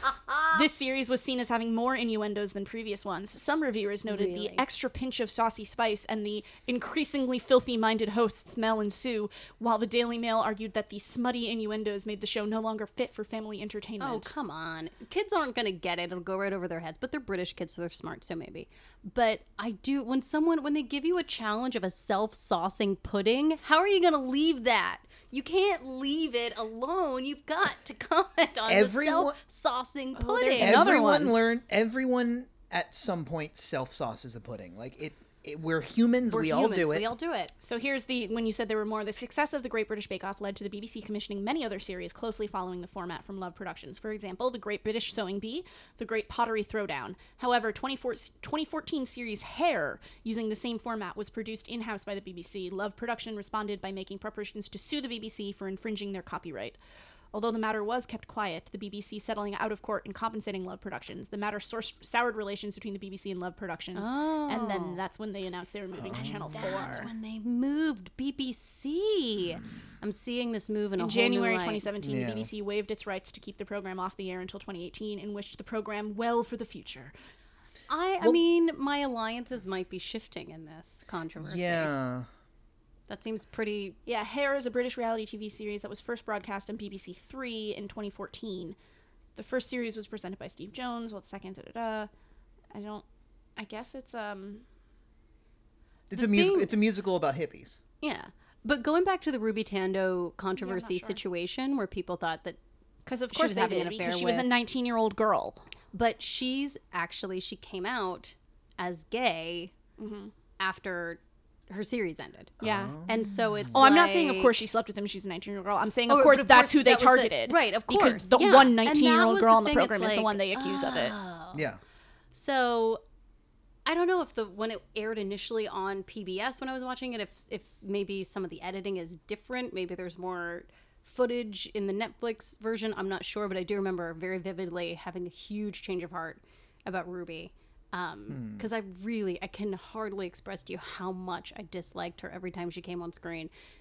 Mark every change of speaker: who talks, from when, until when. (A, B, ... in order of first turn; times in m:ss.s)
0:00.5-0:14.3 A
0:04.1-0:04.6 B
0:14.0-0:31.3 B
0:28.7-0:29.4 C
0:30.1-0:31.3 A
0:30.6-0:37.1 C
0:36.3-0:37.5 B
0:37.6-0:56.8 A
0:57.3-1:07.1 A
1:04.0-1:05.0 B
1:06.0-1:06.9 C
1:06.5-1:11.8 B
1:11.0-1:17.1 A
1:12.0-1:12.5 C
1:17.9-1:21.9 B
1:21.4-1:22.3 C
1:23.1-1:24.0 B
1:24.0-1:28.8 A
1:29.4-1:32.1 A
1:32.7-1:33.0 A
1:33.6-1:34.6 A
1:36.1-1:37.8 C
1:36.1-1:36.8 B
1:38.0-1:42.6 B
1:40.6-1:41.2 A
1:43.0-1:45.6 A
1:43.3-1:44.5 B
1:45.9-1:49.7 B
1:50.0-1:50.3 A
1:50.6-1:54.6 B
1:52.6-1:53.9 C
1:52.6-1:52.9 A
1:53.7-2:01.2 A
1:56.1-2:01.7 B
2:01.5-2:01.8 C
2:02.3-2:03.0 B
2:03.8-2:23.5 B
2:18.3-2:18.6 C